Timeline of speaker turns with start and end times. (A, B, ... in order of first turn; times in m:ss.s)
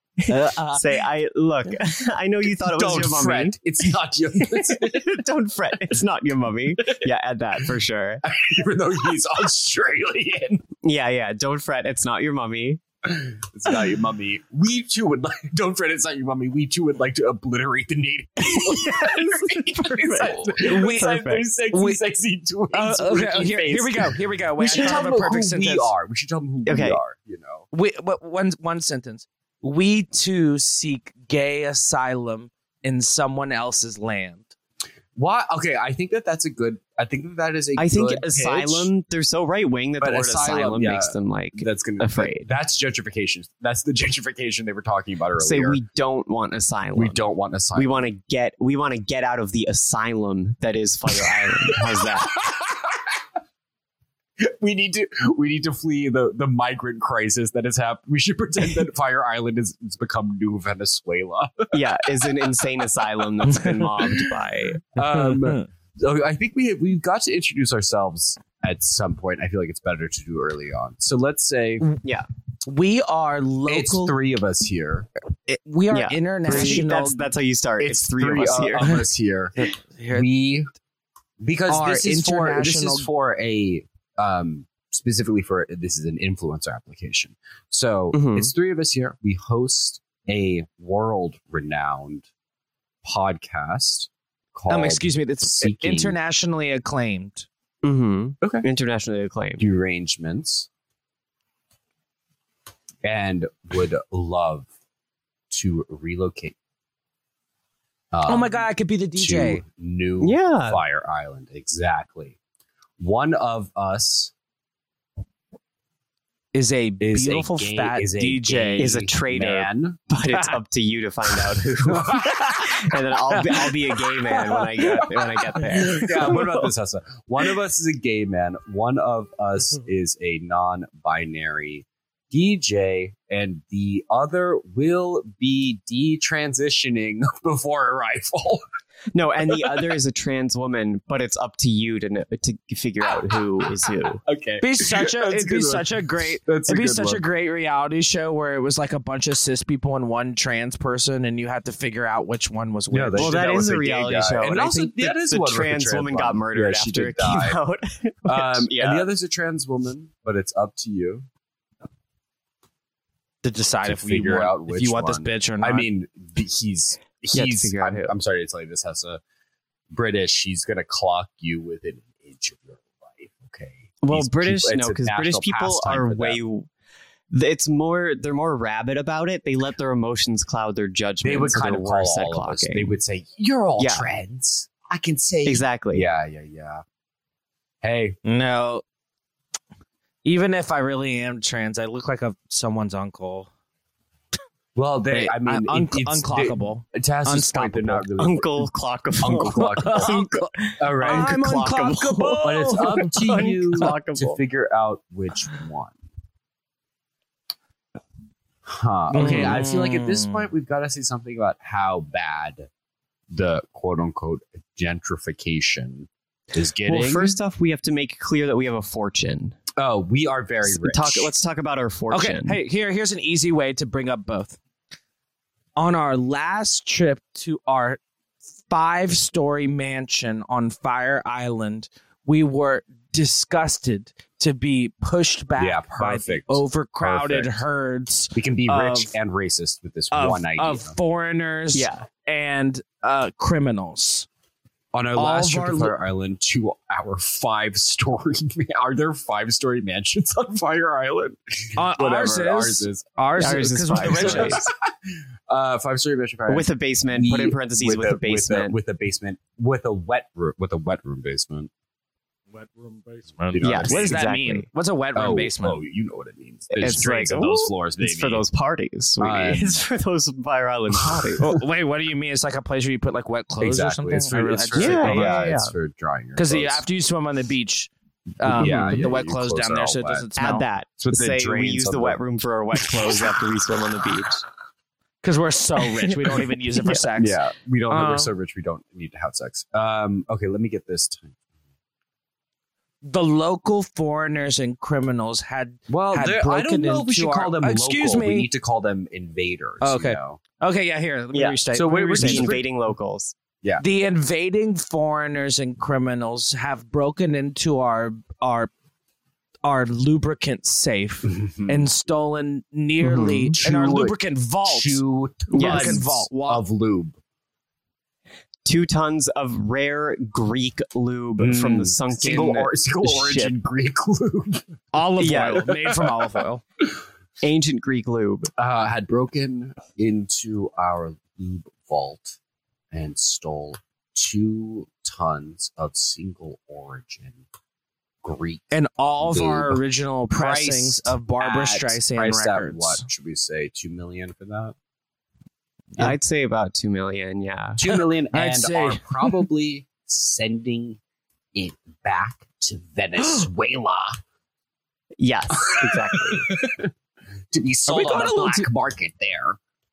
0:00.2-0:03.6 A
0:00.3-0:01.0 B
0:02.6-0:05.2 C
0:04.6-0:08.2 A
0:08.2-0:10.7 C
0:10.8-0:12.8 A
0:13.0-0:27.6 C
0:18.6-0:21.4 A
0:20.6-0:22.0 B
0:22.7-0:25.9 B
0:26.6-0:27.0 A
0:27.7-0:34.5 B
0:35.2-0:38.9 C
0:37.8-0:42.5 A
0:40.0-0:45.8 C
0:45.4-0:52.4 A
0:47.0-0:48.1 C
0:51.3-0:53.0 C
0:54.4-1:01.7 C
1:01.7-1:04.8 A
1:04.9-1:11.8 C
1:05.0-1:05.7 B
1:12.6-1:14.2 B
1:13.7-1:15.1 C
1:15.5-1:17.2 B
1:15.9-1:19.0 A
1:16.5-1:16.8 C
1:17.8-1:19.6 C
1:19.6-1:20.3 B
1:20.1-1:20.7 C
1:21.4-1:32.2 C
1:21.7-1:23.1 B
1:28.1-1:28.5 A
1:33.0-1:36.2 C
1:34.7-1:37.5 B
1:37.8-1:39.6 A
1:39.6-1:40.7 C
1:43.0-1:44.7 C
1:45.5-1:46.6 C
1:48.1-1:52.4 C
1:48.2-1:49.6 B
1:50.2-1:50.8 A
1:53.0-1:54.3 C
1:56.5-1:58.9 B
1:57.0-2:00.0 C
1:58.8-2:06.5 A
2:01.8-2:02.4 C
2:02.2-2:02.7 B
2:03.3-2:06.4 B
2:05.8-2:18.6 C
2:19.1-2:24.2 A
2:24.2-2:27.2 C
2:24.6-2:33.4 B
2:32.9-2:37.6 C
2:33.2-2:39.1 A
2:38.2-2:41.3 C
2:43.4-2:45.9 B
2:43.8-2:49.2 C
2:47.3-2:48.1 A
2:49.9-2:56.4 C
2:54.0-2:56.7 A
2:57.3-3:02.9 A
3:01.2-3:06.8 C
3:03.8-3:04.0 A
3:05.4-3:06.0 A
3:07.8-3:08.2 C
3:08.2-3:08.8 B
3:10.2-3:13.5 B
3:14.7-3:18.7 C
3:15.1-3:18.1 B
3:18.2-3:24.4 A
3:19.2-3:21.3 C
3:19.6-3:23.9 B
3:22.4-3:26.0 C
3:28.6-3:32.7 C
3:29.1-3:30.4 B
3:29.2-3:29.5 A
3:33.3-3:37.4 C
3:36.8-3:39.6 A
3:39.8-3:41.3 C
3:40.6-3:42.6 A
3:42.1-3:44.6 B
3:45.8-3:48.0 B
3:48.7-3:59.1 B
3:55.6-3:57.6 C
3:58.3-4:00.9 C
4:00.1-4:04.3 B
4:01.7-4:02.0 A
4:04.9-4:13.1 C
4:05.2-4:05.9 B
4:11.8-4:14.6 B
4:13.4-4:14.7 A
4:14.0-4:14.7 C
4:15.5-4:21.7 C
4:16.5-4:18.8 A
4:22.5-4:25.8 B
4:23.5-4:24.2 C
4:23.6-4:24.6 A
4:25.1-4:28.4 C
4:26.7-4:31.6 A
4:29.2-4:29.8 C
4:31.0-4:31.3 C
4:31.4-4:35.4 B
4:33.6-4:36.8 C
4:34.7-4:35.7 A
4:36.4-4:40.6 B
4:38.4-4:40.3 C
4:38.5-4:39.0 A
4:40.4-4:44.4 A
4:41.0-4:42.2 C
4:45.2-4:47.4 B
4:47.2-4:51.4 C
4:47.9-4:48.3 B
4:53.0-4:58.5 B
4:55.9-5:00.4 C
4:59.8-5:02.6 B
5:01.3-5:01.6 A
5:01.7-5:02.6 C
5:02.1-5:03.3 A
5:03.8-5:08.7 B
5:09.6-5:16.6 B
5:11.2-5:11.9 C
5:13.0-5:13.5 A
5:13.6-5:17.2 C
5:15.5-5:16.0 A
5:18.6-5:23.5 A
5:21.4-5:24.7 C
5:24.9-5:26.6 B
5:25.2-5:25.7 A
5:27.4-5:28.5 A
5:28.6-5:32.4 C
5:32.9-5:37.4 C
5:38.2-5:44.7 C
5:38.7-5:43.0 B
5:46.0-5:47.8 A
5:47.8-5:51.0 C
5:47.9-5:49.4 B
5:51.5-5:54.2 C
5:55.2-5:56.6 A
5:55.6-5:56.9 C
5:57.5-5:59.6 C
5:57.9-5:58.7 B